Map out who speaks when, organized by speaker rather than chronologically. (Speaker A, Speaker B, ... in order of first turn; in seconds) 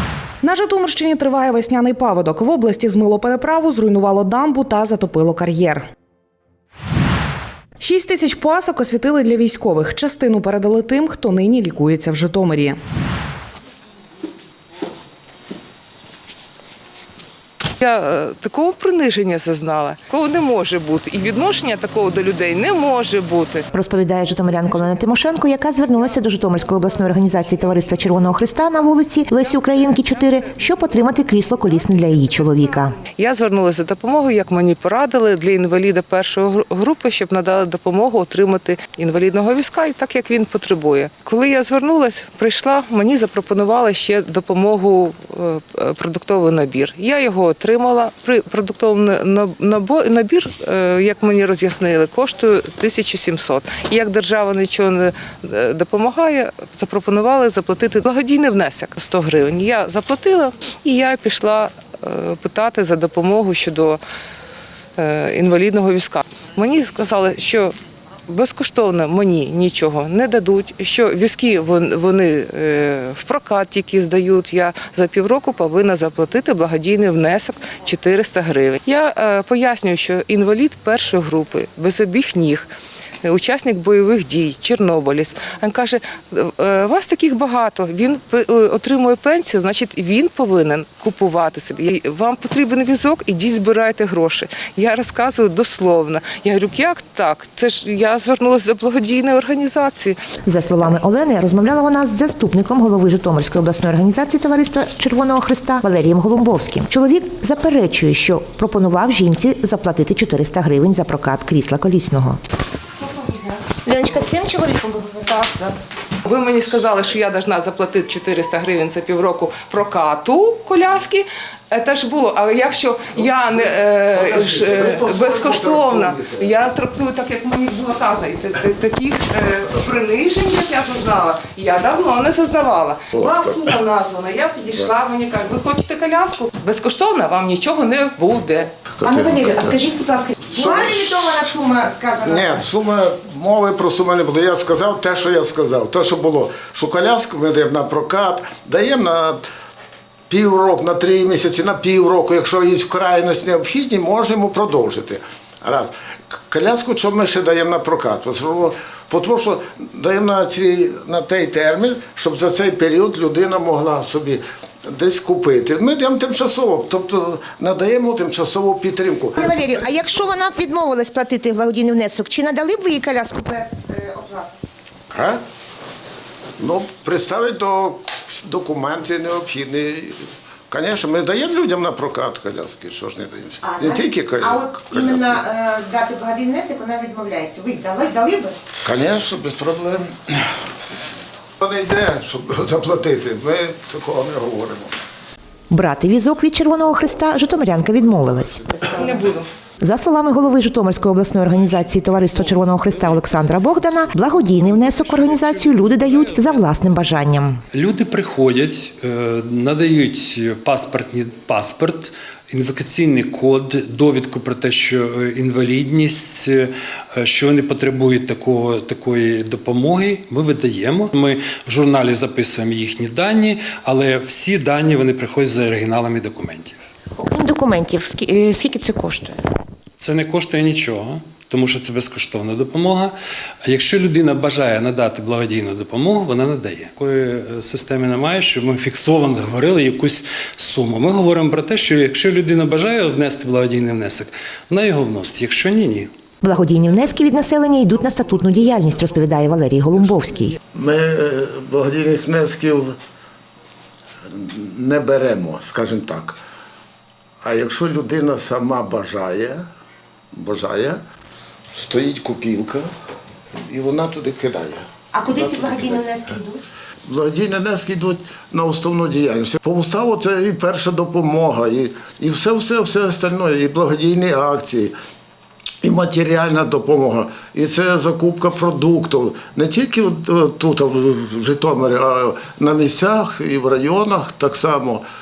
Speaker A: 0.4-5.9, 7.8-12.8
Speaker B: 17.8-23.7, 33.2-64.0, 65.0-67.8, 68.3-82.7, 83.2-100.2, 115.3-115.7, 116.2-138.8, 198.9-199.5
Speaker C: 23.7-33.0, 100.5-112.4, 113.8-115.3, 139.0-142.7, 169.4-174.5, 183.6-188.6, 195.7-199.2, 199.8-207.6, 227.2-229.4, 246.4-250.6, 265.1-266.6
Speaker D: 124.1-126.5, 133.1-133.5, 138.9-139.8, 140.5-141.4, 142.2-149.4, 150.3-169.6, 175.1-175.4, 176.6-180.2, 180.7-185.4, 188.8-190.4, 191.6-194.9, 250.7-252.9, 254.3-256.4, 257.4-259.6, 260.3-261.0, 261.7-262.9, 263.7-266.1, 267.1-274.9, 275.8-285.0
Speaker E: 207.7-226.8, 230.0-246.1